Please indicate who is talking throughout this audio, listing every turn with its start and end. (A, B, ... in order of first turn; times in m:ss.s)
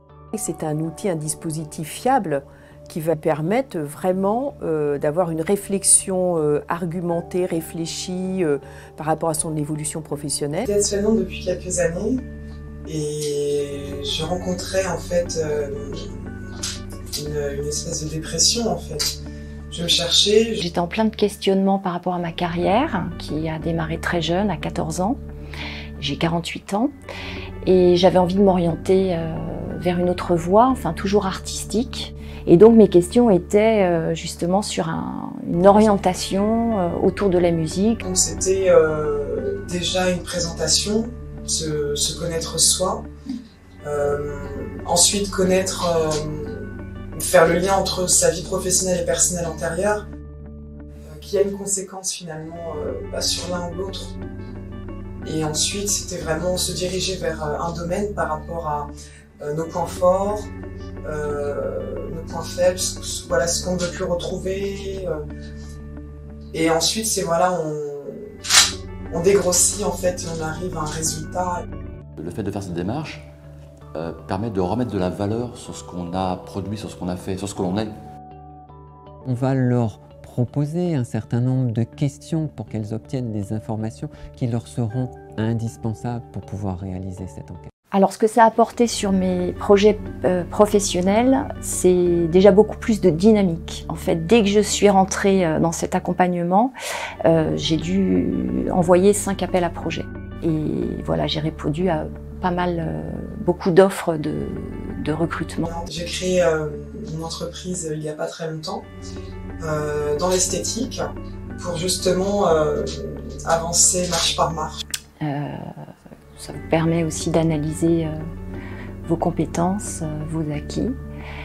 0:00.3-0:10.6 A
0:10.6-0:12.2 B
0:12.8-0:16.3 B
0:17.1-0:19.2 B
0:19.7-0:20.6 B
0:20.6-0:25.2 C
0:26.0-0:26.9 C
0:27.6-0:38.0 C
0:38.0-0:43.0 B
0:43.8-0:50.0 B
0:51.0-0:54.1 B
0:55.2-1:00.5 B
1:01.0-1:05.2 B
1:06.5-1:08.4 B
1:09.1-1:11.6 B
1:12.2-1:13.2 D
1:13.9-1:17.9 D
1:19.2-1:27.7 E
1:27.9-1:36.7 C
1:37.2-1:45.7 C
1:45.7-1:48.9 B
1:49.6-1:54.8 B
1:55.2-1:55.6 C
1:56.4-1:58.2 C
1:59.0-2:01.0 C